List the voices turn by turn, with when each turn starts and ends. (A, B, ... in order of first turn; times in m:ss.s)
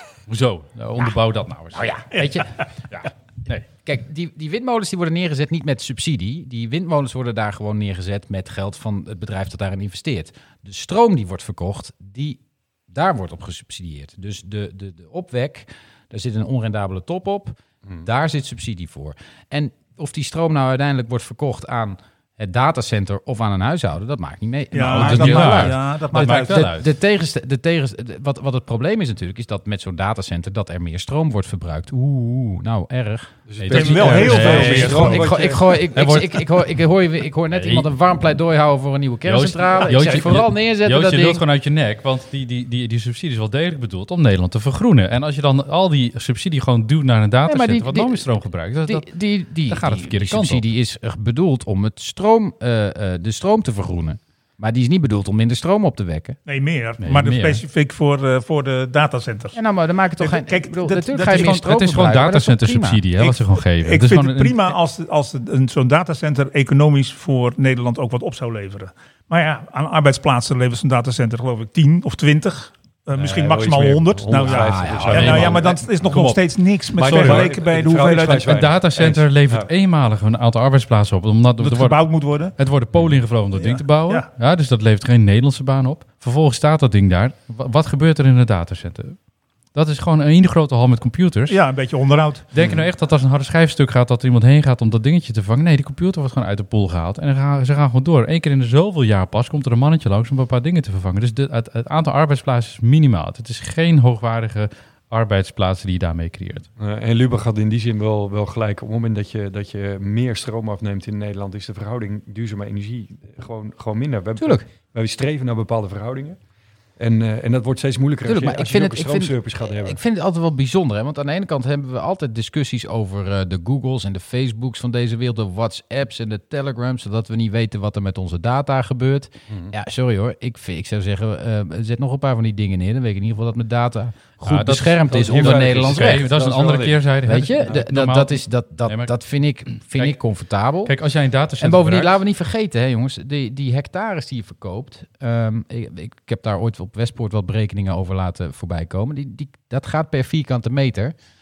0:00.3-0:01.9 A
0:01.7-0:03.1 B
0:02.9-0:03.6 A
0:03.7-0:41.4 B
0:24.7-0:26.7 C
0:24.9-0:26.9 A
0:33.5-0:35.9 D
0:33.6-0:36.6 A
0:33.7-0:35.3 C
0:37.5-0:37.9 A
0:39.2-0:50.6 A
0:47.5-0:56.4 B
0:56.5-0:59.6 C
0:57.0-0:57.6 A
0:59.6-1:03.0 B
1:00.2-1:01.6 C
1:01.3-1:04.8 A
1:03.2-1:18.6 C
1:13.2-1:16.4 D
1:14.4-1:15.9 B
1:16.9-1:19.7 D
1:17.0-1:17.5 A
1:18.4-1:22.0 A
1:21.6-1:22.6 C
1:22.6-1:29.2 A
1:22.9-1:23.2 D
1:23.6-1:24.3 C
1:29.7-1:31.6 A
1:31.5-1:32.5 C
1:32.5-1:46.7 A
1:32.6-1:32.9 D
1:46.8-1:56.4 D
1:54.4-1:54.6 B
1:57.0-2:00.0 D
1:58.2-2:16.3 B
2:14.4-2:19.2 A
2:15.1-2:17.1 D
2:17.2-2:20.9 B
2:20.8-2:22.2 A
2:21.6-2:31.1 B